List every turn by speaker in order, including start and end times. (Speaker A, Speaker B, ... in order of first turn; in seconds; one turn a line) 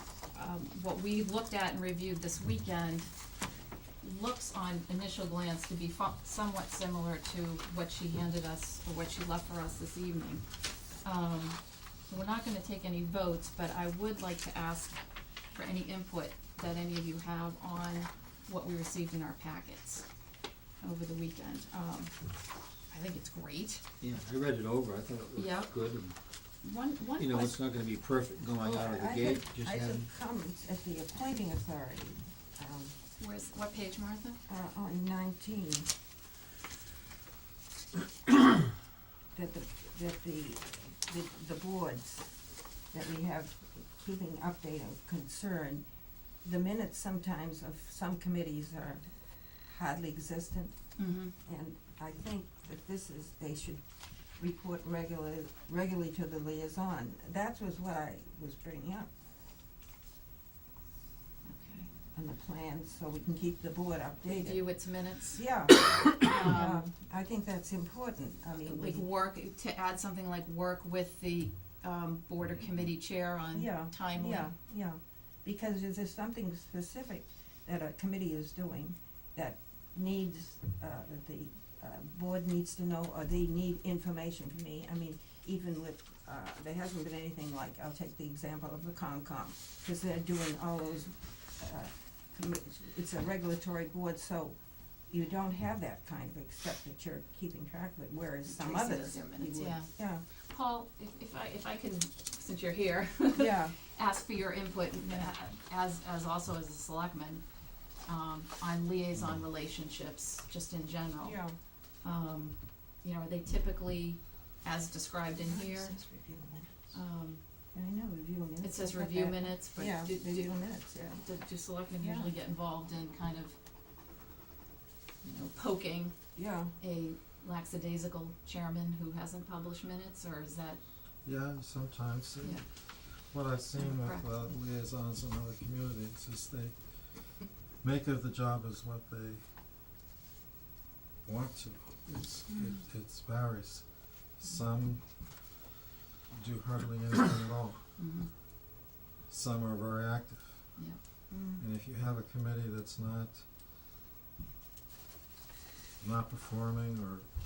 Speaker A: 0.3-3.1
Speaker A: 4.0-10.4
Speaker A: 11.0-15.0
Speaker A: 15.5-20.1
Speaker A: 20.8-22.1
Speaker A: 22.9-23.8
Speaker B: 24.0-26.2
Speaker A: 25.4-25.7
Speaker A: 26.6-27.6
Speaker B: 27.2-30.1
Speaker C: 28.6-33.0
Speaker A: 33.1-34.4
Speaker C: 34.5-35.9
Speaker C: 39.3-42.3
Speaker C: 42.9-45.8
Speaker C: 46.4-49.0
Speaker C: 49.7-50.8
Speaker A: 51.0-51.3
Speaker C: 51.4-53.8
Speaker C: 54.4-59.1
Speaker A: 61.5-61.9
Speaker C: 62.1-64.7
Speaker A: 64.3-65.4
Speaker C: 65.3-69.1
Speaker A: 66.2-66.8
Speaker A: 68.7-74.5
Speaker C: 73.5-94.6
Speaker C: 95.1-100.2
Speaker A: 98.5-107.4
Speaker C: 103.3-103.8
Speaker A: 108.1-111.4
Speaker C: 111.2-111.6
Speaker A: 112.0-116.0
Speaker C: 115.5-116.8
Speaker A: 116.9-117.4
Speaker C: 117.7-121.2
Speaker A: 118.6-120.5
Speaker A: 121.2-123.6
Speaker C: 122.0-122.3
Speaker A: 125.2-126.1
Speaker C: 126.4-126.7
Speaker A: 126.8-130.8
Speaker D: 131.2-139.4
Speaker A: 133.8-134.5
Speaker D: 141.2-145.3
Speaker A: 142.5-142.8
Speaker D: 146.3-147.8
Speaker A: 148.0-148.3
Speaker D: 149.3-150.7
Speaker C: 151.3-151.6
Speaker D: 151.6-153.5
Speaker D: 156.0-157.3